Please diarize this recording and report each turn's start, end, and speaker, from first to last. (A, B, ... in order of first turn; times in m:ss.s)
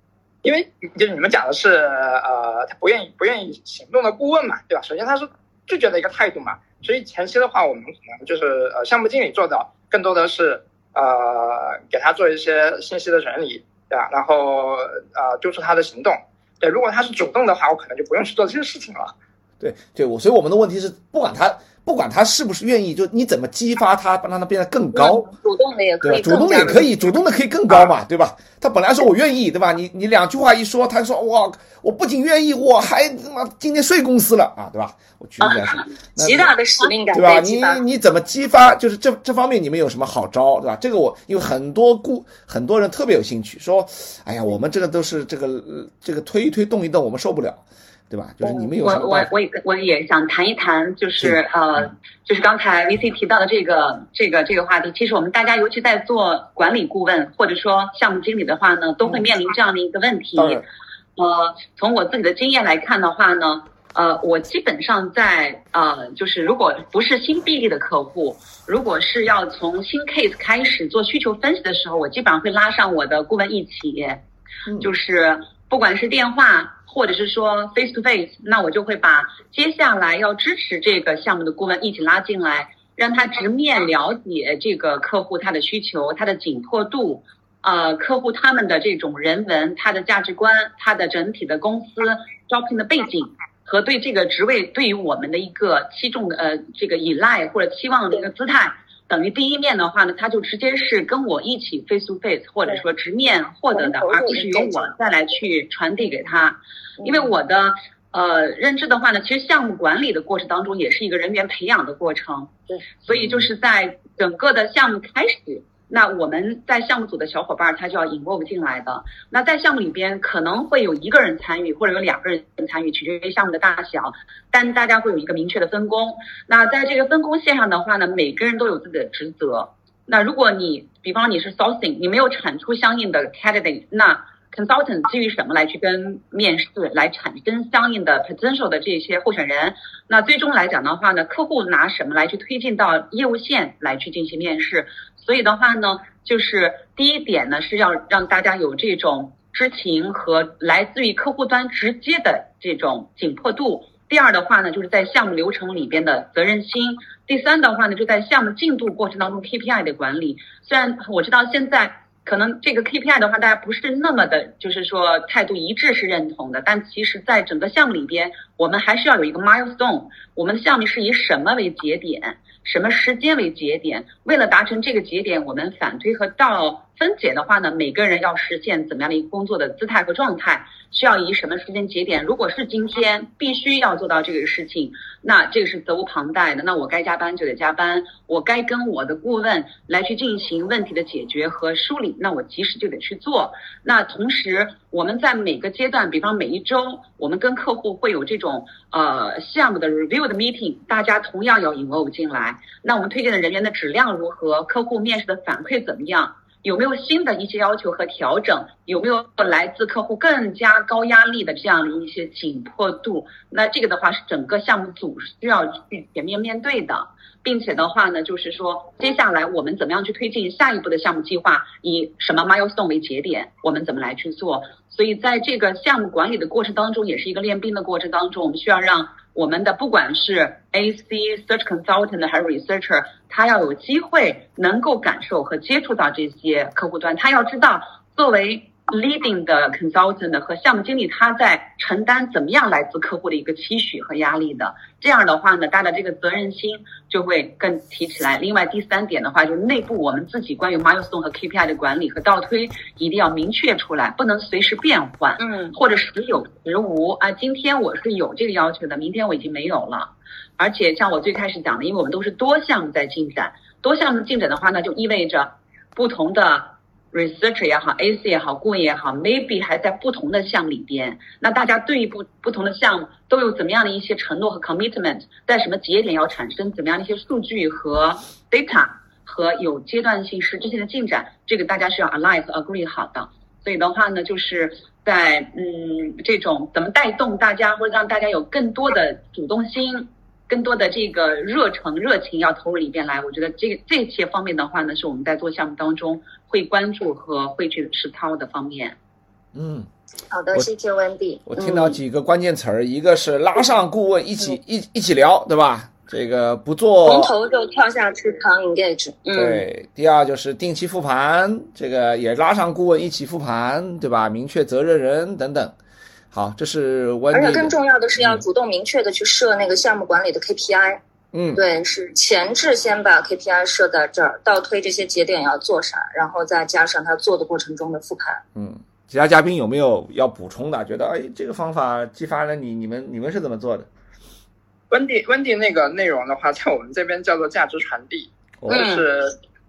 0:00.4-0:19.1 A
0:19.6-0:25.3 B
0:25.0-0:27.0 C
0:26.0-0:36.5 B
0:35.4-0:35.9 D
0:36.2-0:37.8 C
0:37.1-0:49.3 B
0:48.4-0:48.7 C
0:48.8-1:00.6 D
1:00.4-1:00.6 B
1:01.2-1:14.2 D
1:14.7-1:14.9 B
1:14.8-4:59.0 D
1:43.7-1:44.9 C
1:47.0-1:47.3 C
1:53.1-1:53.5 B
4:15.4-4:15.8 C
4:59.6-4:59.9 B
5:00.3-5:02.0 C
5:01.5-5:07.3 B
5:07.0-5:09.6 C
5:09.3-5:15.8 B
5:16.3-5:18.4 B
5:17.3-5:21.0 C
5:21.3-5:21.6 B
5:21.6-5:28.4 C
5:28.6-5:33.9 B
5:34.9-5:39.4 A
5:38.6-5:38.9 B
5:38.7-5:39.0 C